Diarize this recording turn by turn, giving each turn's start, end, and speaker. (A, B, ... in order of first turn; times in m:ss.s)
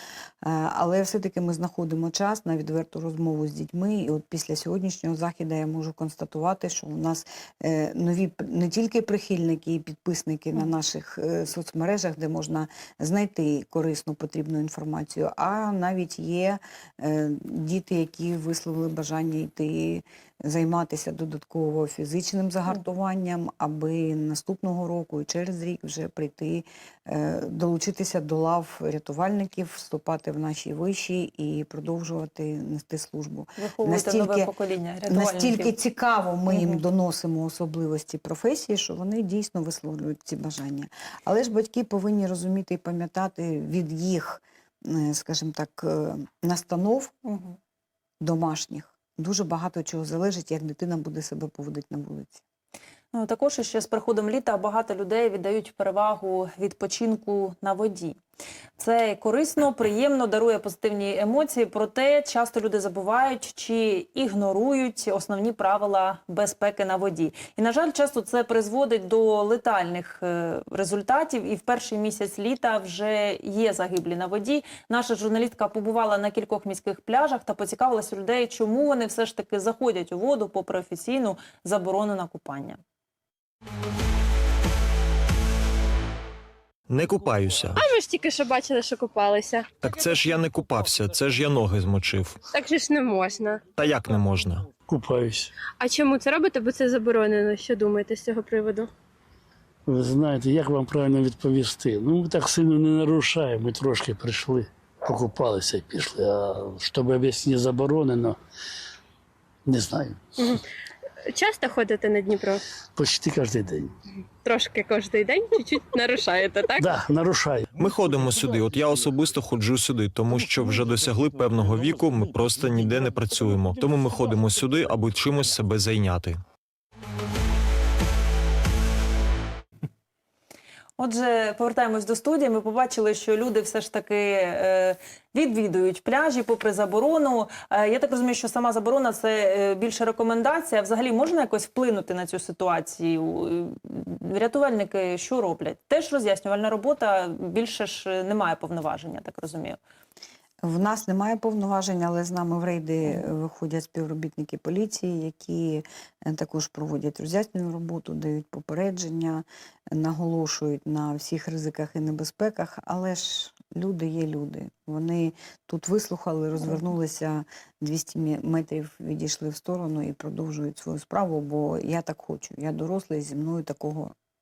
0:00.4-0:34.5 A
0:33.6-0:35.7 B
0:35.1-0:47.1 A
0:36.5-0:36.8 B
0:47.2-0:47.6 B
0:48.2-0:52.4 A
0:53.1-0:58.2 B
0:58.8-1:22.8 B
1:26.9-1:27.8 C
1:27.8-1:29.7 D
1:29.8-1:32.4 C
1:32.5-1:33.6 D
1:33.8-1:34.7 C
1:34.9-1:35.5 E
1:35.8-1:38.9 D
1:39.9-1:48.4 E
1:49.6-1:50.3 E
1:51.3-1:52.6 D
1:53.0-1:53.9 E
1:54.4-1:56.9 D
1:56.8-1:57.7 E
1:57.8-2:06.4 C
2:11.0-2:29.8 B
2:30.6-2:54.1 A